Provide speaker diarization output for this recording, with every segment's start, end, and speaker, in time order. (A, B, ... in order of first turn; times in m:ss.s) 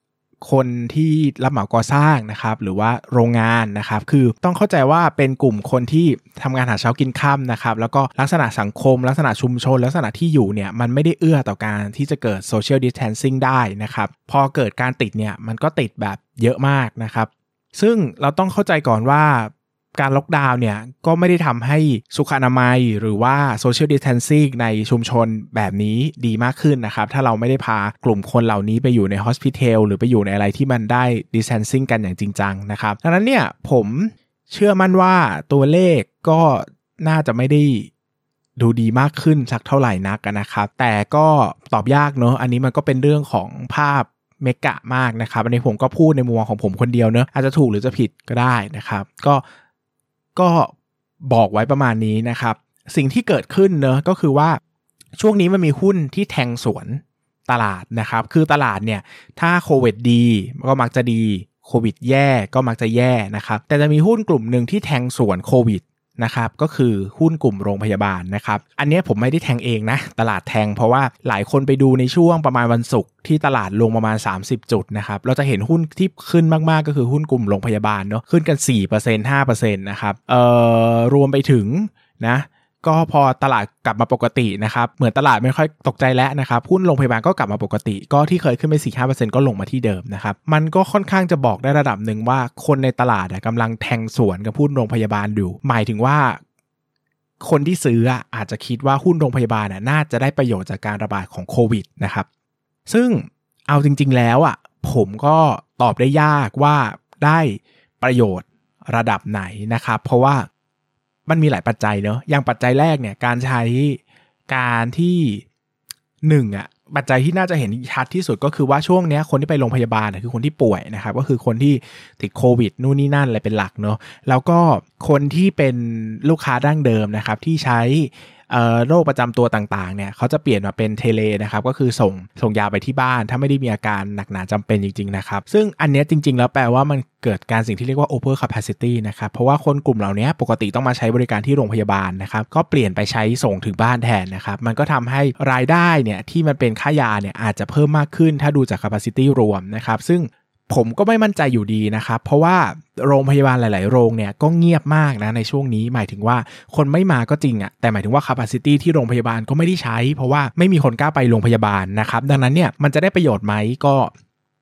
0:00.4-0:37.9 A
0:38.6-0:49.4 A
0:50.4-0:50.7 A
0:51.3-0:54.6 A
0:55.2-1:36.4 A
1:37.4-1:42.3 A
1:42.9-1:50.5 A
1:51.3-1:55.4 A
1:56.2-2:44.1 A